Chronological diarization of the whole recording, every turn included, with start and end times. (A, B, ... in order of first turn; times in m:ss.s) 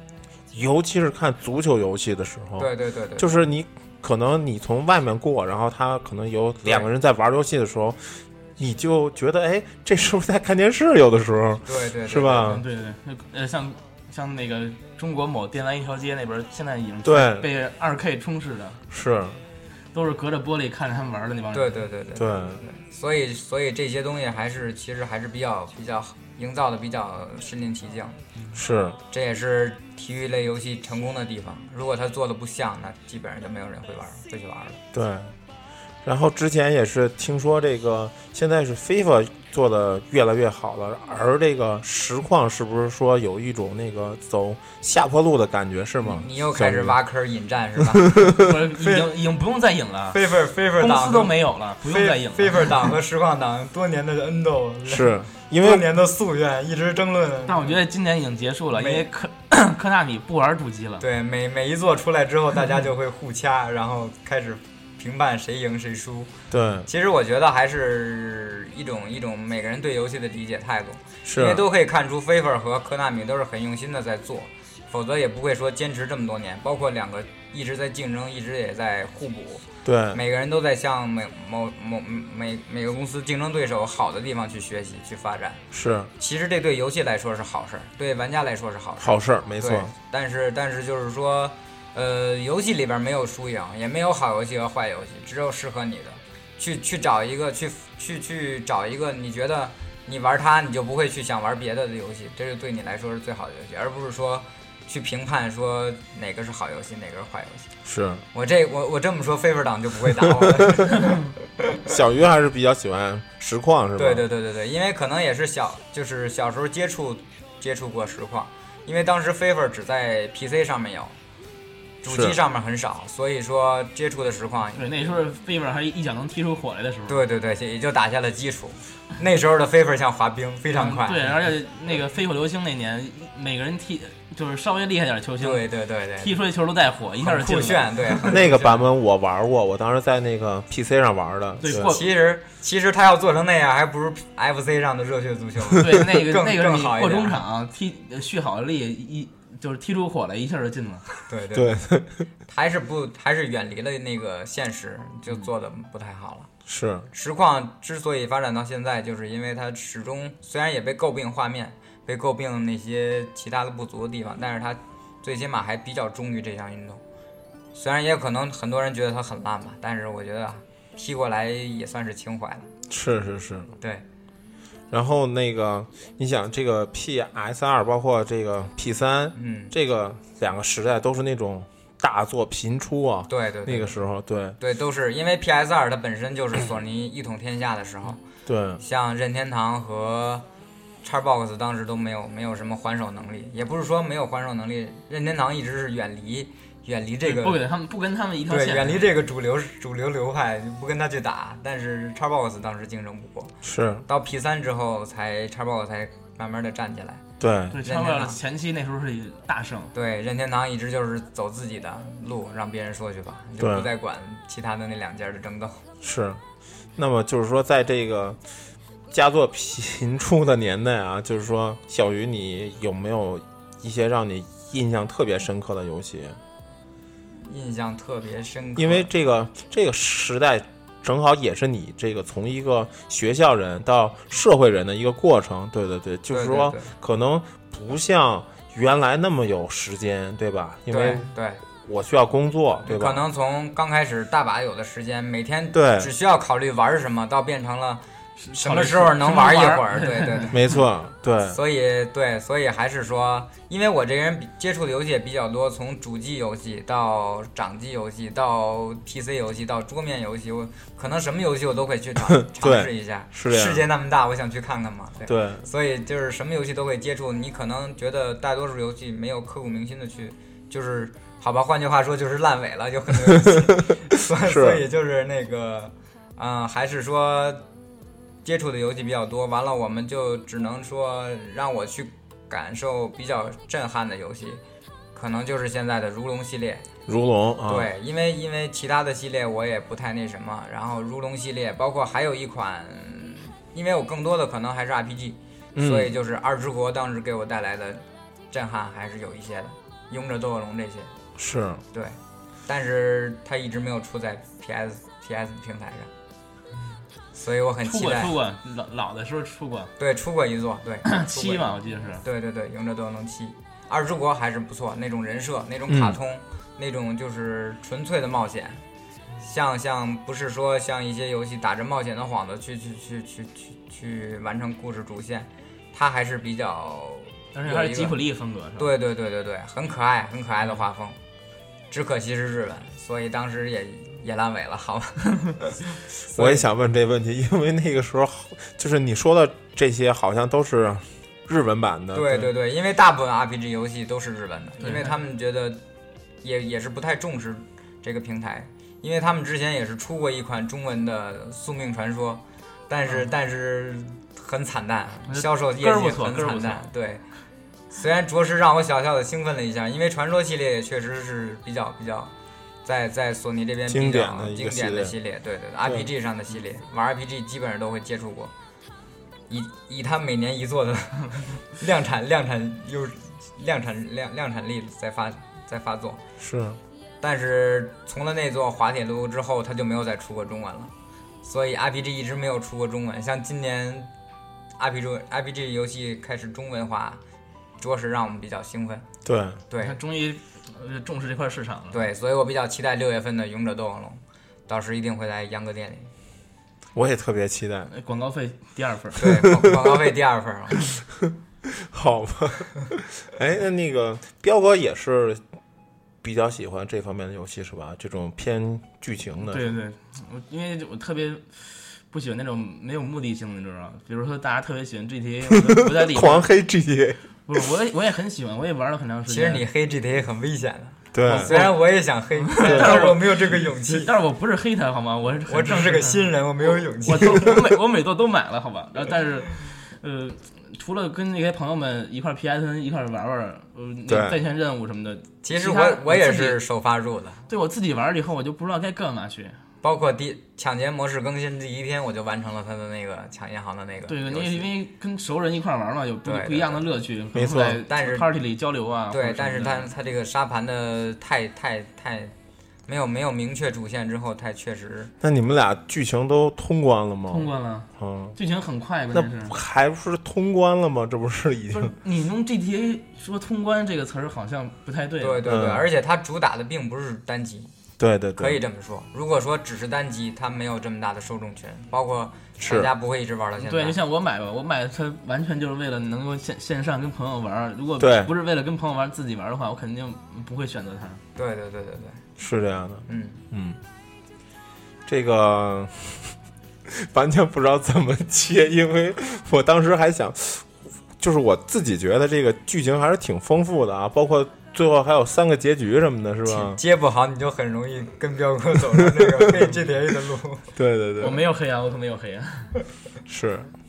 0:00.5-0:12.6 A
0:02.6-0:03.4 B
0:11.6-0:12.5 B
0:12.4-0:18.8 C
0:17.0-0:17.5 A
0:18.9-0:19.4 A
0:19.9-0:21.8 C
0:21.5-0:28.2 B
0:22.1-0:22.6 A
0:28.5-0:29.0 A
0:29.1-0:34.8 B
0:34.9-0:35.3 A
0:36.0-0:47.0 A
0:46.0-0:49.1 B
0:47.9-0:48.5 A
0:48.4-0:50.2 C
0:50.1-0:57.8 B
0:50.8-0:52.8 C
0:54.9-0:55.8 A
0:57.5-1:01.0 C
0:58.7-0:59.1 B
1:01.0-1:06.3 B
1:06.5-1:06.9 A
1:06.8-1:25.6 B
1:11.2-1:11.6 A
1:19.8-1:20.2 A
1:25.7-1:26.1 A
1:26.2-1:47.7 B
1:29.0-1:29.9 A
1:47.8-1:48.2 A
1:48.3-1:51.2 B
1:51.8-1:54.2 A
1:54.0-2:01.2 B
2:02.0-2:05.2 B
2:02.1-2:02.4 A
2:04.7-2:07.2 C
2:07.1-2:11.4 B
2:10.7-2:15.6 C
2:15.4-2:16.3 B
2:16.2-2:18.4 C
2:17.2-2:18.9 B
2:18.2-2:21.9 A
2:21.6-2:22.1 C
2:21.7-2:27.4 B
2:25.8-2:31.1 C
2:31.3-2:31.8 B
2:31.5-2:32.2 A
2:32.5-2:36.5 B
2:36.6-2:37.1 A
2:37.1-2:47.0 B
2:47.7-2:52.7 B
2:52.9-2:53.7 A
2:54.9-3:04.6 A
2:59.3-2:59.7 B
3:03.3-3:04.0 B
3:04.6-3:08.2 B
3:08.4-3:08.8 A
3:08.8-3:10.4 B
3:11.0-3:17.6 B
3:17.2-3:19.1 C
3:18.5-3:23.5 B
3:23.6-3:24.0 A
3:24.0-3:27.2 B
3:27.4-3:27.8 A
3:27.7-3:29.9 C
3:27.8-3:28.4 B
3:29.9-3:35.8 B
3:33.6-3:33.9 A
3:36.0-3:36.4 A
3:37.0-3:38.4 A
3:39.1-3:46.4 A
3:47.4-3:49.1 B
3:48.8-4:01.3 A
3:56.3-3:56.9 B
4:00.9-4:01.6 B
4:01.8-4:03.2 A
4:02.8-4:08.0 B
4:05.7-4:06.1 A
4:08.4-4:10.6 C
4:08.5-4:10.6 B
4:10.5-4:11.6 A
4:11.5-4:37.6 B
4:22.4-4:23.8 A
4:25.3-4:25.6 A
4:33.2-4:34.8 A
4:38.4-4:44.6 B
4:45.1-4:46.8 B
4:47.1-4:47.9 A
4:47.6-5:01.1 B
4:55.7-4:56.1 A
5:01.4-5:01.8 A
5:01.9-5:06.1 B
5:07.4-5:08.3 B
5:07.8-5:09.9 C
5:10.0-5:18.8 B
5:11.0-5:12.2 C
5:15.9-5:16.2 A
5:19.4-5:28.2 B
5:27.5-5:28.9 C
5:28.8-5:31.2 B
5:31.9-5:36.6 B
5:36.3-5:42.5 A
5:42.1-5:45.8 B
5:44.8-5:45.2 C
5:46.4-5:57.2 B
5:55.3-5:56.8 C
5:57.9-6:02.3 B
6:02.8-6:08.5 B
6:03.9-6:05.1 A
6:09.5-6:16.2 B
6:16.4-6:16.8 A
6:17.2-6:20.9 B
6:21.4-6:24.1 B
6:24.8-6:27.2 B
6:27.8-6:29.0 B
6:29.2-6:29.6 A
6:29.7-6:30.0 B
6:29.8-6:32.0 C
6:31.9-6:36.1 B
6:36.9-6:37.9 A
6:37.9-6:39.3 C
6:39.2-6:40.8 B
6:39.4-6:39.8 A
6:41.6-6:45.4 A
6:46.2-6:49.6 A
6:49.5-6:56.5 C
6:55.9-6:57.6 A
6:57.5-6:59.6 C
6:59.3-7:04.1 B
7:01.1-7:01.7 A
7:01.2-7:01.7 C
7:02.4-7:16.6 C
7:02.6-7:03.0 A
7:05.5-7:07.6 B
7:14.1-7:14.4 A
7:15.4-7:17.4 B
7:17.5-7:19.6 C
7:19.8-7:24.7 B
7:24.1-7:29.9 C
7:26.2-7:26.8 B
7:27.3-7:27.8 A
7:27.8-7:28.3 B
7:29.1-7:32.3 B
7:32.9-7:35.1 B
7:35.2-7:38.4 A
7:37.3-7:39.5 C
7:39.1-7:41.9 A
7:41.7-7:45.5 C
7:45.2-7:47.7 B
7:45.4-7:45.8 A
7:48.0-7:48.6 A
7:48.4-7:54.0 B
7:52.6-7:52.9 A
7:53.6-8:01.2 C
7:58.0-7:58.3 A
8:01.4-8:02.2 B
8:02.4-8:03.8 A
8:03.1-8:03.4 B
8:05.1-8:06.3 A
8:06.9-8:16.8 A
8:16.4-8:20.7 B
8:19.0-8:19.7 A
8:20.7-8:21.4 A
8:21.2-8:22.7 C
8:23.2-8:23.7 A